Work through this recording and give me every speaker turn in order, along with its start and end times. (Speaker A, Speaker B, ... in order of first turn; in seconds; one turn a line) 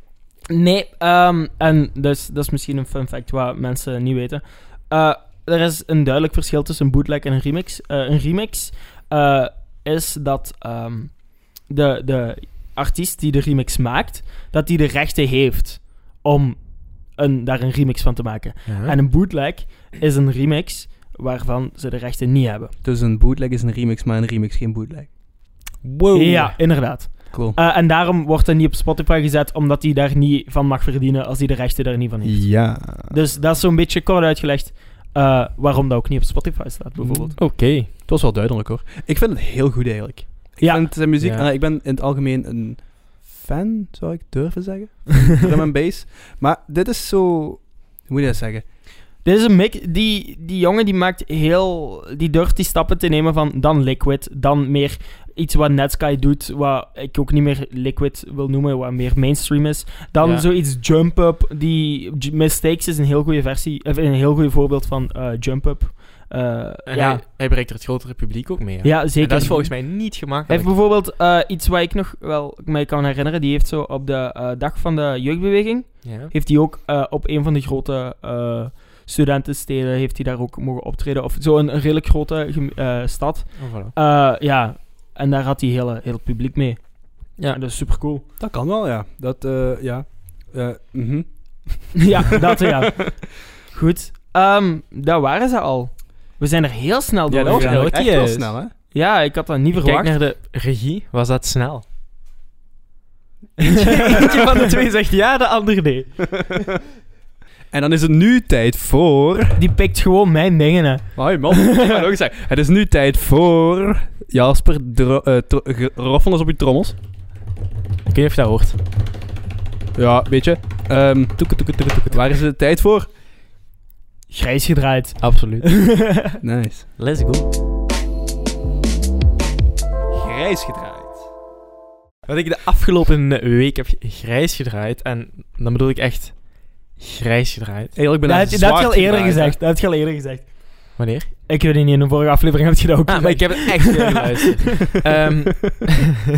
Speaker A: 0.5-22.7
Speaker B: 18.7-18.9
Speaker C: 22.8-25.1
Speaker B: 25.8-26.6
Speaker A: 26.1-37.4
Speaker C: 27.3-27.6
Speaker C: 32.2-33.2
Speaker C: 37.0-48.6
Speaker B: 37.4-37.9
Speaker A: 40.6-40.9
Speaker B: 41.2-41.5
Speaker A: 49.2-67.2
Speaker B: 60.2-60.5
Speaker B: 66.9-70.7
Speaker A: 68.8-88.2
Speaker B: 76.0-76.3
Speaker B: 83.6-83.9
Speaker C: 88.4-92.1
Speaker A: 91.9-98.1
Speaker C: 97.3-98.7
Speaker B: 97.5-98.6
Speaker A: 98.9-100.3
Speaker B: 99.8-101.8
Speaker B: 103.7-106.5
Speaker C: 107.7-109.6
Speaker A: 109.6-112.0
Speaker C: 111.2-117.0
Speaker B: 118.1-118.8
Speaker C: 119.9-123.1
Speaker B: 121.5-122.1
Speaker A: 124.3-126.4
Speaker B: 125.2-125.7
Speaker C: 126.4-126.9
Speaker B: 127.0-127.5
Speaker C: 130.1-131.2
Speaker B: 132.3-138.0
Speaker C: 137.9-139.6
Speaker A: 138.2-144.4
Speaker B: 141.0-141.3
Speaker B: 143.1-146.1